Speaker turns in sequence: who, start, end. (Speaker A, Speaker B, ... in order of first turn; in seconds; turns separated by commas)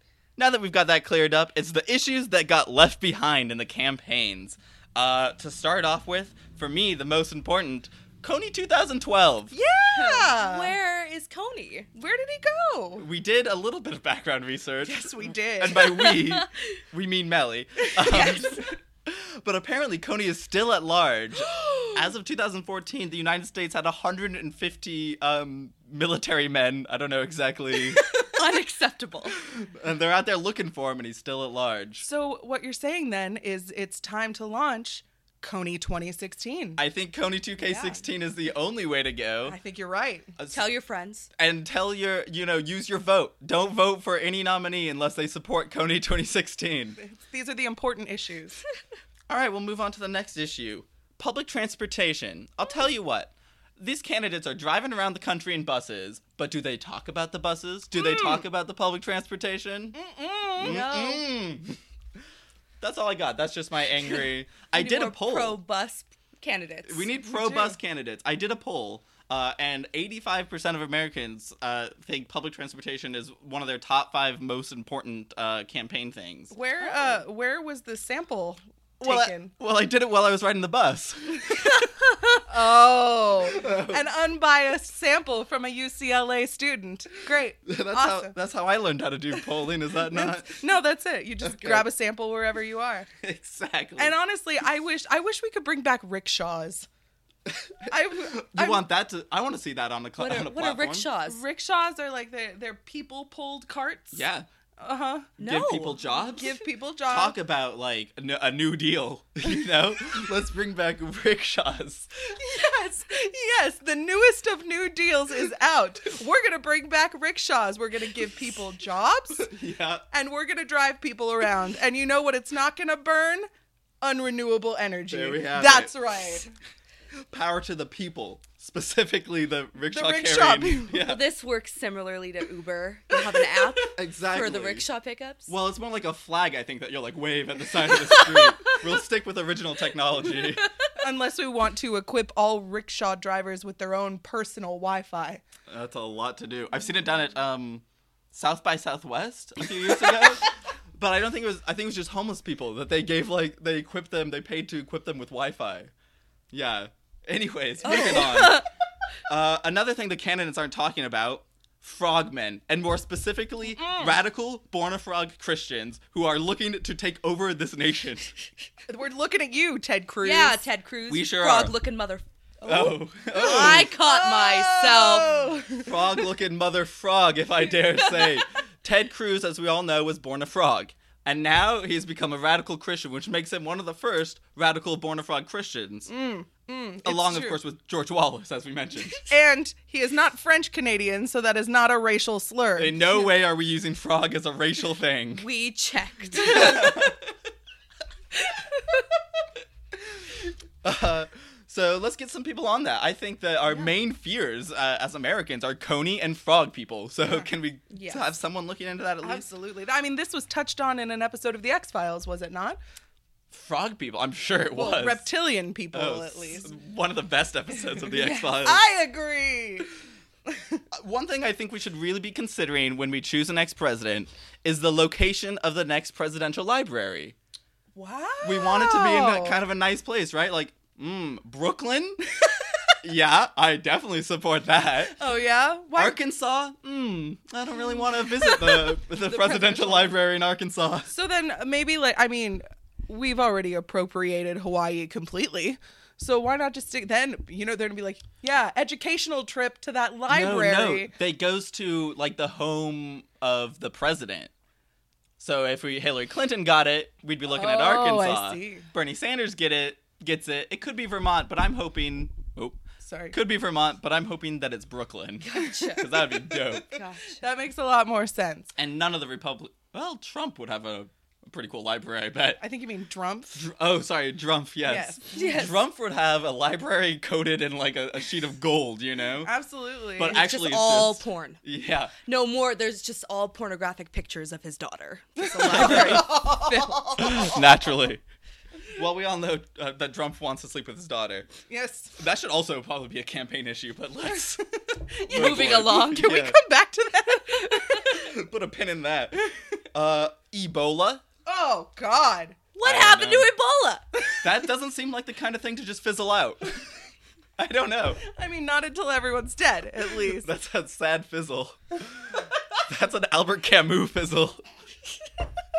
Speaker A: 0.4-9.5, Speaker B: 9.5-10.8, Speaker C: 9.9-11.9, Speaker B: 11.9-13.1, Speaker A: 13.0-28.1, Speaker B: 14.8-15.9, Speaker C: 28.2-29.4, Speaker A: 29.5-32.0, Speaker B: 32.0-36.8, Speaker A: 36.8-39.6, Speaker C: 37.6-38.0, Speaker B: 39.4-40.3, Speaker A: 40.4-40.6, Speaker C: 40.5-41.3, Speaker A: 41.4-47.0, Speaker B: 47.0-48.6, Speaker A: 49.3-60.0, Speaker B: 58.0-58.4, Speaker B: 59.9-60.8, Speaker A: 60.6-61.8, Speaker C: 60.6-61.3, Speaker A: 62.8-65.6, Speaker C: 64.0-67.1, Speaker A: 66.8-76.5, Speaker B: 67.3-67.8, Speaker B: 76.5-79.5, Speaker A: 79.0-81.7, Speaker B: 82.5-88.3, Speaker A: 83.6-84.0, Speaker A: 87.7-90.6, Speaker B: 90.1-93.1, Speaker A: 91.4-91.8, Speaker A: 93.2-94.2, Speaker B: 94.0-96.9, Speaker B: 97.9-98.8, Speaker A: 98.2-101.1, Speaker C: 100.2-101.4, Speaker B: 101.3-104.2, Speaker A: 104.1-104.5, Speaker B: 104.8-105.3, Speaker C: 105.4-106.1, Speaker A: 105.4-112.1, Speaker B: 106.2-107.4, Speaker B: 112.4-119.5, Speaker A: 119.4-120.0, Speaker B: 120.1-123.5, Speaker B: 124.0-126.5, Speaker A: 125.1-125.9, Speaker A: 127.3-131.2, Speaker B: 129.9-131.0, Speaker C: 131.0-135.5, Speaker A: 133.9-134.9, Speaker A: 135.5-140.6, Speaker C: 138.2-138.5, Speaker B: 141.0-145.4, Speaker A: 145.7-155.9, Speaker A: 156.5-158.6, Speaker C: 157.8-158.7, Speaker A: 159.3-168.3, Speaker B: 163.7-164.2, Speaker B: 168.9-170.7, Speaker C: 170.2-175.3, Speaker A: 171.1-171.7, Speaker A: 172.6-173.9, Speaker B: 173.3-176.2, Speaker A: 175.2-186.1, Speaker B: 186.1-187.6, Speaker A: 187.0-189.2, Speaker B: 189.2-193.0, Speaker A: 192.8-195.4, Speaker C: 195.3-197.1, Speaker A: 196.3-197.2, Speaker A: 200.8-209.4, Speaker B: 207.2-207.5, Speaker C: 207.9-208.3, Speaker B: 209.2-212.8, Speaker A: 213.5-215.2, Speaker B: 214.7-216.7, Speaker A: 215.9-218.8, Speaker C: 218.2-218.5, Speaker B: 218.6-219.9, Speaker B: 220.5-220.8, Speaker A: 220.9-227.3, Speaker B: 227.9-229.6, Speaker A: 228.4-232.2, Speaker A: 233.0-235.2, Speaker B: 235.2-236.2, Speaker A: 235.9-241.1, Speaker B: 238.4-240.2, Speaker B: 241.1-251.1, Speaker A: 250.3-254.5, Speaker A: 255.4-262.8, Speaker B: 257.5-258.9, Speaker B: 263.0-263.3, Speaker A: 263.3-266.9, Speaker C: 265.4-266.3, Speaker C: 266.9-267.4, Speaker B: 267.4-268.7, Speaker A: 268.8-272.6, Speaker B: 272.6-273.6, Speaker A: 273.5-279.5, Speaker B: 274.8-275.3, Speaker C: 275.3-275.8, Speaker B: 279.4-280.4, Speaker A: 280.2-282.1, Speaker C: 280.3-281.6, Speaker C: 282.2-287.5, Speaker A: 285.6-286.4, Speaker B: 285.7-287.4, Speaker A: 287.2-288.2, Speaker A: 288.9-291.5, Speaker B: 291.7-292.1, Speaker A: 292.2-294.6, Speaker B: 295.1-298.1, Speaker A: 295.3-296.6, Speaker C: 295.3-296.3, Speaker A: 297.9-301.2, Speaker B: 301.4-302.6, Speaker C: 302.7-304.0, Speaker A: 302.8-303.5, Speaker A: 304.4-306.7, Speaker A: 307.6-308.2, Speaker B: 308.2-310.5, Speaker A: 310.2-314.6